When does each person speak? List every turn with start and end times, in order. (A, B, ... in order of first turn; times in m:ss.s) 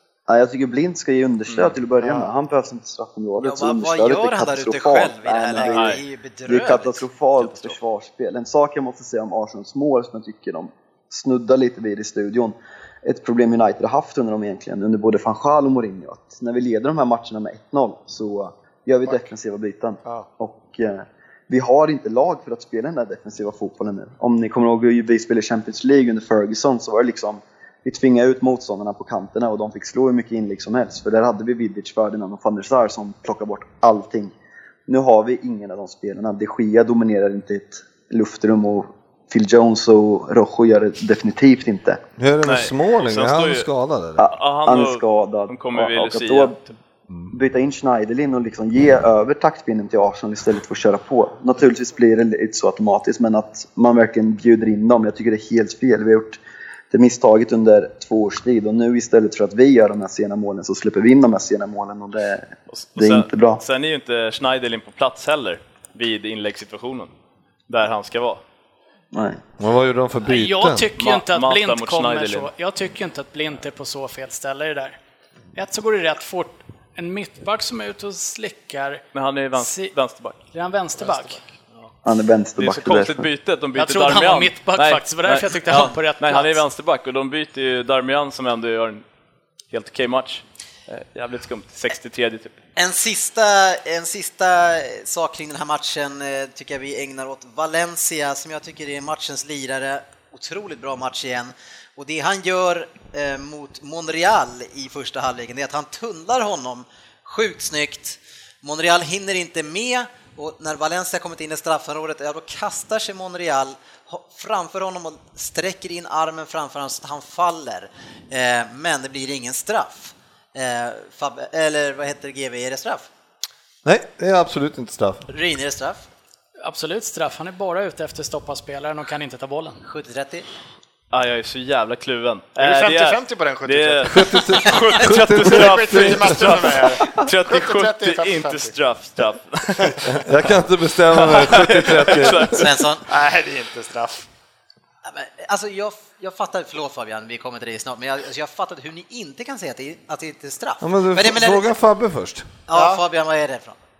0:00.3-0:34.3 A
0:02.0-0:02.3 B
0:03.4-0:07.8 C
0:05.6-0:06.0 D
0:34.9-0:42.0 A
0:42.2-0:44.2 E
0:42.4-0:43.7 D
0:44.2-0:46.6 A
0:44.3-0:46.7 D
0:47.3-0:56.4 A
0:56.9-1:03.6 A
1:02.7-1:07.1 D
1:07.7-1:08.4 D
1:09.1-1:09.4 A
1:09.6-1:10.9 E
1:10.2-1:15.0 F
1:11.0-1:12.5 D
1:15.5-1:19.0 F
1:19.1-1:20.4 D
1:19.5-1:19.9 F
1:20.5-1:21.5 F
1:21.0-1:21.3 B
1:22.0-1:23.3 A
1:22.6-1:29.0 D
1:23.7-1:26.6 F
1:29.7-1:32.6 D
1:32.8-2:03.1 C
2:03.8-2:05.3 E
2:05.3-2:06.1 C
2:06.6-2:09.8 F
2:09.8-2:10.4 C
2:11.1-2:20.2 D
2:12.6-2:14.4 B
2:14.1-2:16.6 E
2:15.3-2:18.7 B
2:20.0-2:22.7 E
2:21.1-2:22.7 D
2:22.5-2:23.0 C
2:23.1-2:24.3 B
2:25.0-2:31.7 C
2:30.8-2:32.5 E
2:32.7-2:33.8 C
2:32.7-2:33.0 B